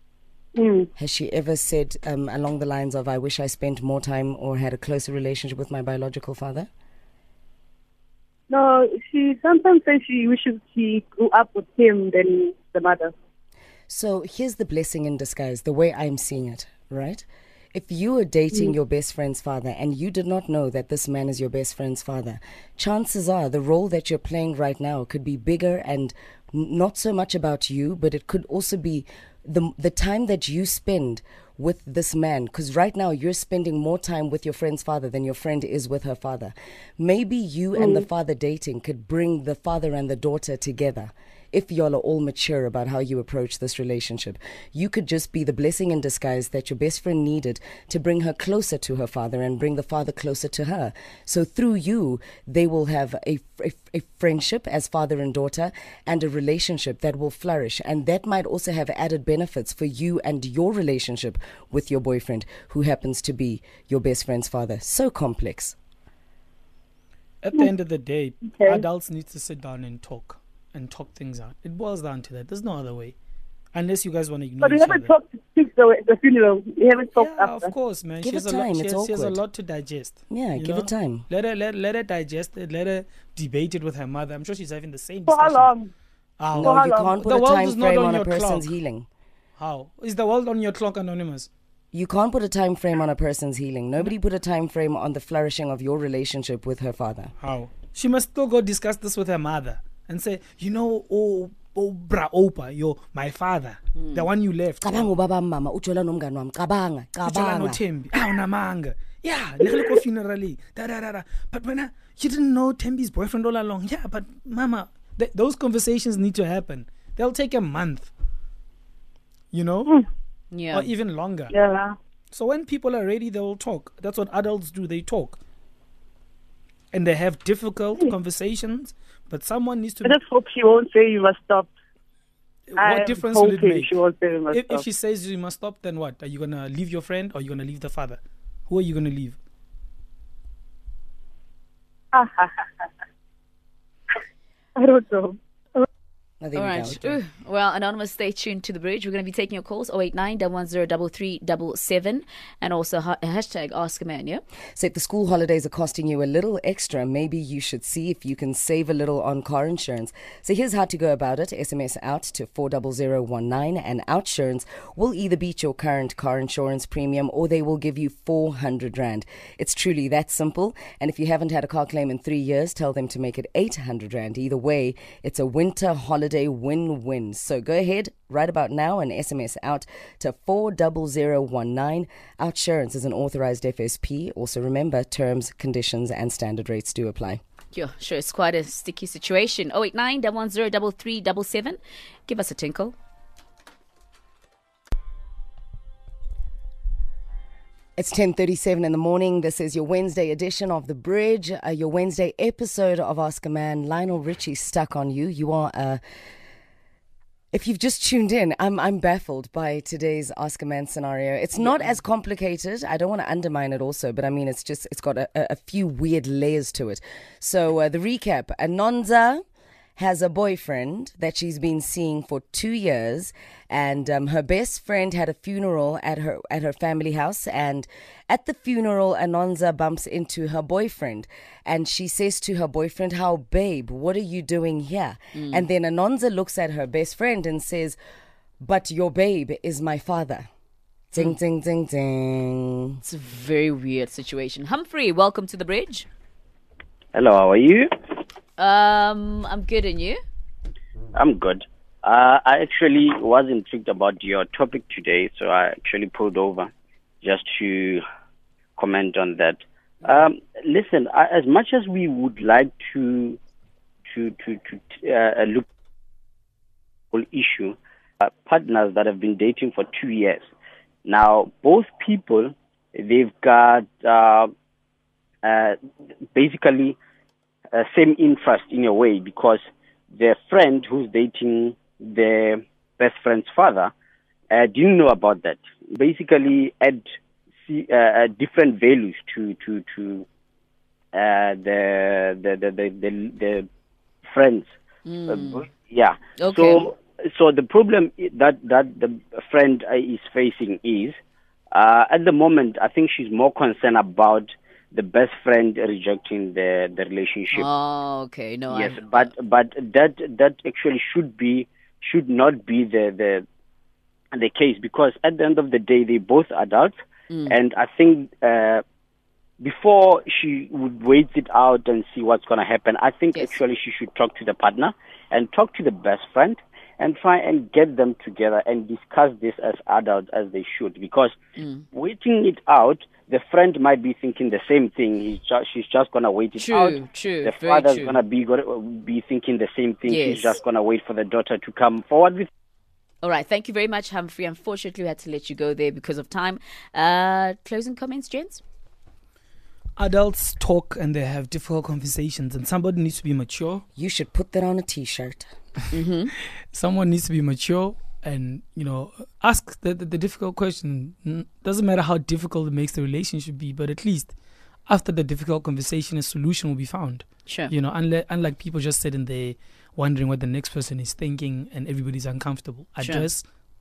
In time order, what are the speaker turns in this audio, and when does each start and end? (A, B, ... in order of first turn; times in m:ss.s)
0:00.5-0:00.9 A
0:01.0-0:06.7 B
0:08.5-0:13.1 A
0:13.9-1:05.8 B
0:37.8-0:38.0 A
1:07.4-1:13.1 C
1:08.4-1:08.8 A
1:13.7-1:15.1 C
1:14.6-1:17.7 A
1:17.1-1:25.8 C
1:18.2-1:19.4 B
1:20.3-1:21.3 B
1:25.3-1:25.9 A
1:26.4-1:28.7 C
1:26.5-1:29.1 B
1:26.6-1:27.2 A
1:29.6-1:31.5 C
1:31.9-1:37.3 B
1:37.4-1:45.1 C
1:44.0-1:44.2 D
1:44.8-1:47.8 B
1:47.2-1:58.1 C
1:59.5-2:00.0 C
2:00.5-2:00.9 D
2:00.7-2:01.5 C
2:01.5-2:01.9 A
2:02.3-2:05.4 C
2:06.9-2:10.2 C
2:10.0-2:11.7 A
2:12.7-2:13.9 C
2:12.8-2:14.8 A
2:14.5-2:19.4 C
2:22.1-2:22.6 A
2:24.8-2:25.9 A
2:26.4-2:27.1 B
2:26.5-2:34.4 D
2:34.8-3:07.4 B
3:07.7-3:12.9 D
3:18.0-3:26.0 B
3:27.5-3:39.4 B
3:31.6-3:31.9 D
3:40.0-3:58.0 B
3:55.3-3:55.6 D
3:58.6-4:00.5 B
4:01.1-4:03.0 B
4:03.0-4:06.0 D
4:07.1-4:07.9 E
4:08.6-4:10.2 D
4:11.1-4:16.7 E
4:17.2-4:18.0 E
4:18.8-4:23.4 E
4:24.1-4:25.6 E
4:27.1-4:30.4 E
4:31.0-4:34.5 E
4:35.4-4:35.8 E
4:36.3-4:37.0 E
4:37.7-4:43.9 E
4:44.5-4:47.1 E
4:47.6-4:50.2 E
4:51.1-4:53.7 E
4:54.3-4:54.7 E
4:55.0-4:55.7 D
4:55.3-5:01.2 E
4:56.4-4:56.9 D
5:01.7-5:07.7 E
5:07.5-5:09.3 D
5:08.7-5:13.4 E
5:14.3-5:18.8 E
5:17.3-5:17.6 D
5:19.6-5:31.4 E
5:23.3-5:23.6 D
5:31.6-5:31.8 D
5:31.9-5:42.5 E
5:36.6-5:38.2 D
5:40.1-5:40.6 D
5:43.2-5:48.6 D
5:50.0-5:53.8 C
5:53.9-5:55.5 B
5:55.9-5:56.3 D
5:56.7-6:04.3 C
6:04.9-6:13.4 C
6:07.5-6:07.7 D
6:13.0-6:13.3 D